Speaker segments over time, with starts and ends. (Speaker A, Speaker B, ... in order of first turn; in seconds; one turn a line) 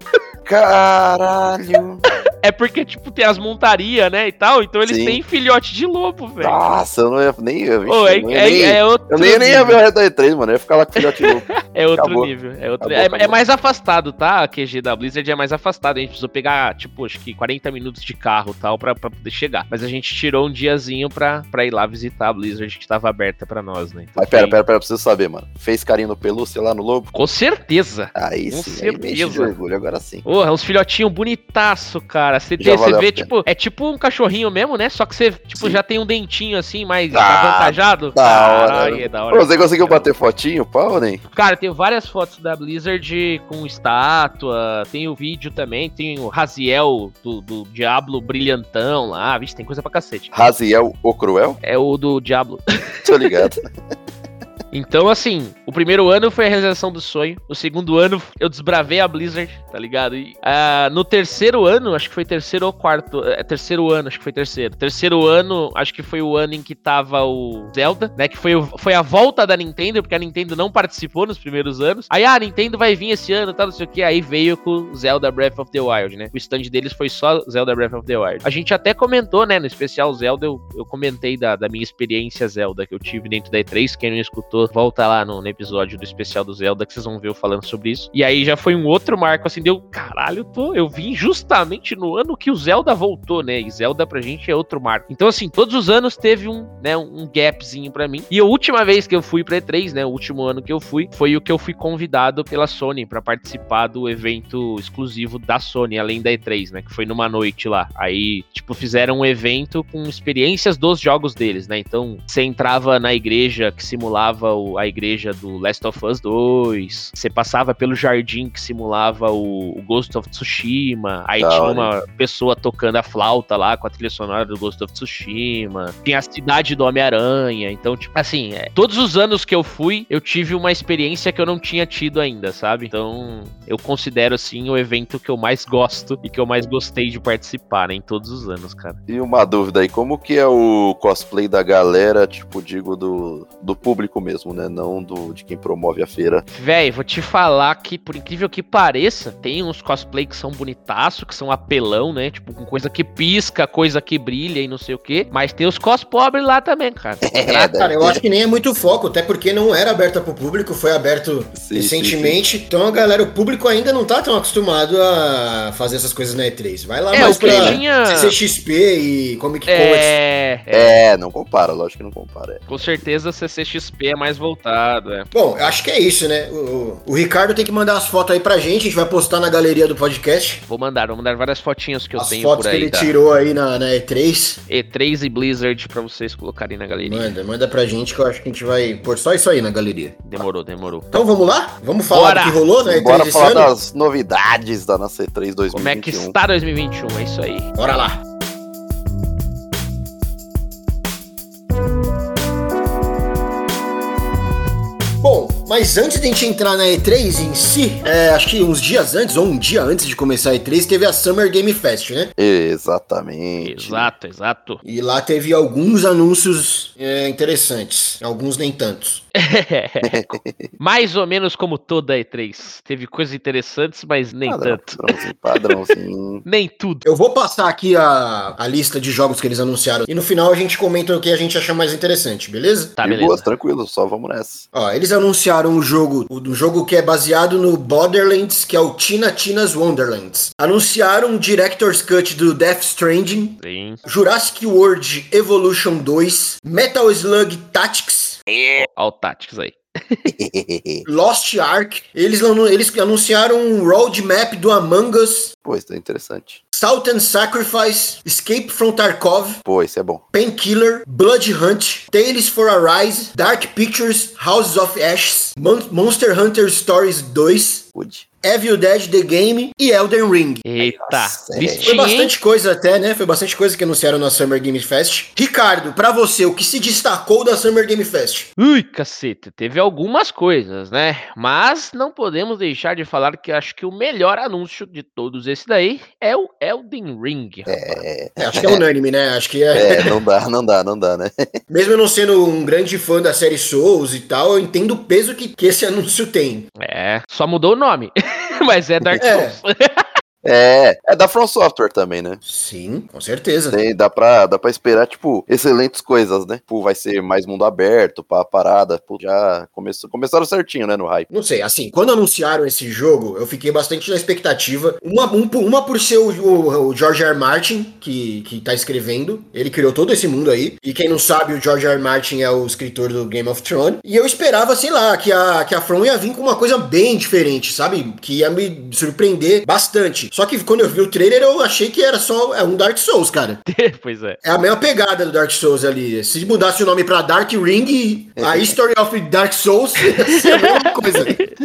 Speaker A: 0.5-2.0
Speaker B: 2.4-6.6
Speaker A: 4.9-5.2
Speaker A: 6.4-13.4
Speaker B: 7.9-9.8
Speaker B: 11.0-24.6
Speaker A: 24.2-27.1
Speaker B: 27.1-29.6
Speaker A: 28.1-30.3
Speaker B: 30.2-40.1
Speaker A: 32.6-33.3
Speaker A: 37.1-41.2
Speaker B: 41.3-50.5
Speaker A: 50.3-51.6
Speaker B: 51.6-53.6
Speaker A: 53.0-53.7
Speaker B: 54.7-139.0
Speaker A: 121.4-121.9
Speaker A: 139.1-146.4
Speaker B: 146.5-157.7
Speaker A: 157.2-158.2
Speaker C: 157.8-170.2
Speaker A: 161.6-162.4
Speaker B: 167.1-168.4
Speaker A: 167.2-167.8
Speaker B: 169.7-171.0
Speaker A: 170.7-172.8
Speaker B: 172.7-175.3
Speaker C: 175.3-180.6
Speaker B: 180.7-183.1
Speaker C: 182.2-184.6
Speaker B: 184.7-187.3
Speaker C: 187.0-190.4
Speaker B: 190.2-191.1
Speaker C: 191.1-193.7
Speaker B: 192.1-192.6
Speaker A: 192.8-196.3
Speaker B: 195.8-197.7
Speaker C: 197.8-198.2
Speaker C: 205.2-212.3
Speaker A: 212.4-214.1
Speaker B: 213.6-214.8
Speaker C: 214.8-219.2
Speaker B: 219.4-225.8
Speaker A: 220.0-220.7
Speaker A: 224.5-226.4
Speaker B: 226.4-227.1
Speaker C: 227.1-233.0
Speaker B: 233.0-233.5
Speaker A: 233.0-234.7
Speaker C: 234.7-248.4
Speaker B: 243.6-244.0
Speaker B: 248.8-250.3
Speaker A: 250.3-251.1
Speaker C: 251.1-255.5
Speaker A: 255.7-256.6
Speaker C: 256.7-259.6
Speaker A: 259.6-260.2
Speaker C: 260.3-267.9
Speaker A: 267.9-268.3
Speaker C: 268.4-270.7
Speaker B: 270.6-272.3
Speaker A: 270.8-271.9
Speaker C: 271.8-278.5
Speaker B: 278.6-288.0
Speaker A: 287.7-288.8
Speaker C: 288.4-290.2
Speaker A: 289.7-291.5
Speaker C: 291.7-296.7
Speaker B: 296.8-300.0
Speaker C: 299.2-299.6
Speaker A: 300.4-302.4
Speaker C: 302.4-303.8
Speaker A: 303.7-311.3
Speaker C: 311.3-333.6
Speaker B: 333.7-334.4
Speaker C: 334.4-341.4
Speaker A: 338.4-338.8
Speaker B: 340.0-341.5